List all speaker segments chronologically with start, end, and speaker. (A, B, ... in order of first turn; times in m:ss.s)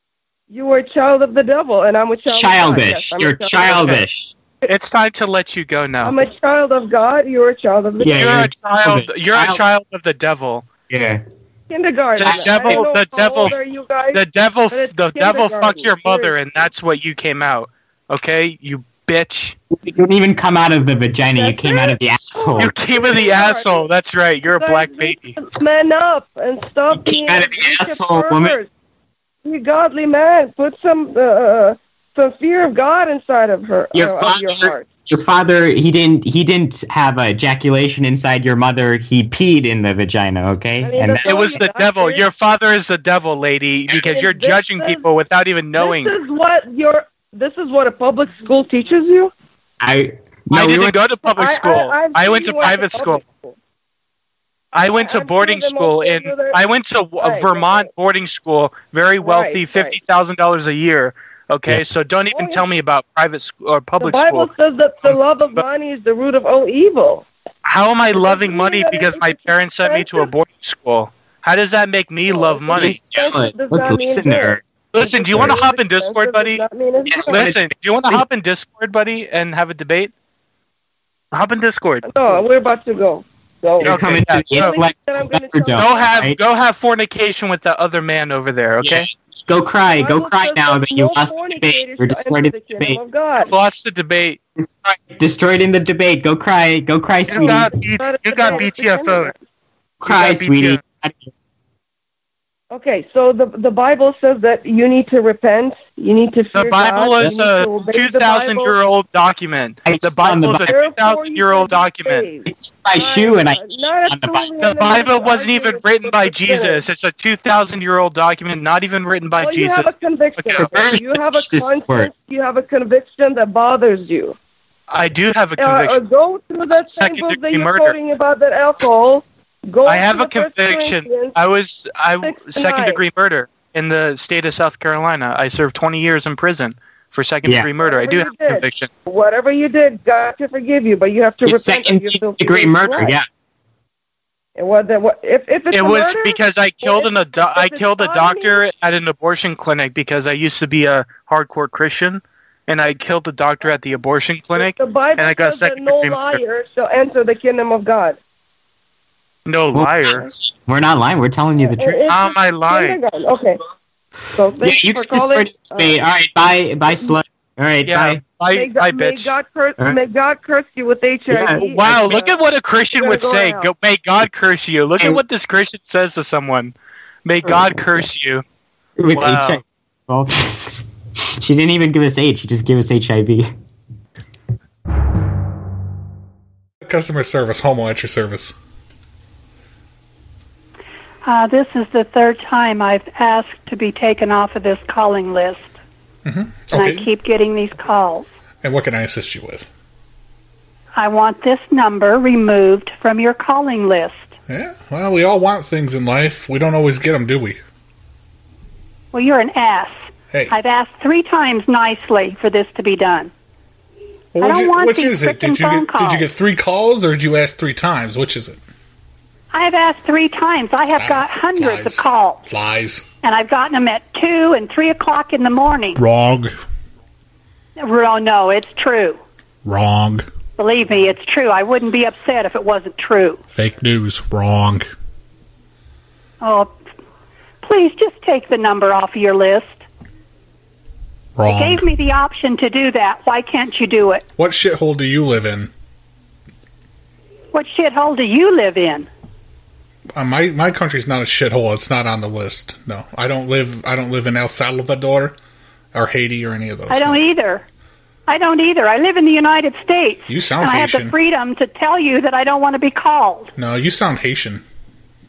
0:00.5-0:04.0 A
0:02.3-0:04.4 B
0:04.7-0:06.2 C
0:06.0-0:08.3 A
0:08.0-0:09.6 B
0:08.1-0:10.7 C
0:10.9-0:11.2 B
0:11.7-0:16.4 A
0:12.2-0:13.6 C
0:12.2-0:12.8 B
0:14.1-0:19.6 C
0:19.7-0:22.8 B
0:21.3-0:23.9 A
0:22.6-0:25.3 C
0:24.5-0:28.7 A
0:26.9-0:28.6 B
0:29.4-0:34.9 A
0:33.9-0:41.4 B
0:40.8-0:42.3 A
0:41.2-0:46.2 C
0:43.9-0:45.1 A
0:45.8-0:49.3 A
0:49.8-0:51.0 B
0:50.5-0:53.2 C
0:51.2-0:53.6 A
0:54.7-1:05.6 C
0:54.8-0:56.6 A
0:57.2-0:57.9 A
0:59.2-1:00.0 A
1:02.3-1:02.6 A
1:04.0-1:07.3 A
1:07.6-1:13.0 C
1:08.1-1:10.3 A
1:12.3-1:17.5 A
1:12.8-1:14.6 B
1:14.9-1:16.6 C
1:15.3-1:15.6 B
1:17.1-1:18.2 B
1:17.3-1:20.1 C
1:21.3-1:22.1 C
1:22.0-1:26.2 A
1:23.8-1:24.8 C
1:23.8-1:26.4 B
1:25.8-1:29.1 C
1:28.8-1:33.0 B
1:29.9-1:33.5 A
1:33.4-1:34.4 C
1:34.6-1:37.7 B
1:37.3-1:39.3 C
1:37.3-1:39.4 A
1:40.0-1:41.3 B
1:40.0-1:40.8 C
1:42.7-1:48.8 A
1:46.5-1:52.3 C
1:49.8-1:50.7 B
1:50.5-1:56.9 A
1:52.5-1:54.5 B
1:54.6-2:00.7 C
1:59.4-2:04.4 A
2:00.6-2:02.1 B
2:04.9-2:06.0 C
2:05.6-2:11.4 A
2:06.7-2:08.0 C
2:09.9-2:18.9 C
2:12.2-2:13.0 A
2:17.4-2:17.7 B
2:17.7-2:23.2 A
2:21.4-2:23.3 B
2:24.6-2:28.7 A
2:25.7-2:36.4 C
2:34.5-2:38.2 A
2:39.5-2:40.3 C
2:39.7-2:42.1 B
2:41.6-2:43.6 A
2:42.1-2:43.0 C
2:44.4-2:46.0 A
2:44.6-2:48.3 B
2:46.9-2:47.2 A
2:47.8-2:49.3 C
2:48.5-2:53.7 A
2:51.3-2:52.0 B
2:51.6-2:56.7 C
2:57.2-2:58.4 C
2:57.5-2:57.8 B
2:59.0-3:00.9 B
2:59.1-2:59.6 C
3:01.4-3:03.5 B
3:06.8-3:08.6 D
3:11.2-3:15.8 E
3:16.2-3:17.1 D
3:16.7-3:18.3 E
3:18.6-3:19.7 D
3:21.0-3:24.4 E
3:24.5-3:27.6 D
3:29.1-3:33.3 E
3:34.3-3:38.6 D
3:34.4-3:36.3 E
3:39.5-3:42.4 E
3:41.0-3:43.1 D
3:43.2-3:46.0 E
3:46.0-3:46.6 D
3:47.8-3:49.2 E
3:49.6-3:50.3 D
3:50.6-3:53.4 E
3:53.5-3:54.9 D
3:56.4-3:56.7 E
3:57.6-3:59.8 E
4:01.4-4:01.9 D
4:01.4-4:04.2 E
4:04.4-4:05.7 D
4:07.5-4:09.1 E
4:10.2-4:15.4 D
4:15.9-4:17.2 D
4:16.9-4:17.6 E
4:18.3-4:23.5 E
4:20.3-4:21.2 D
4:23.6-4:24.6 D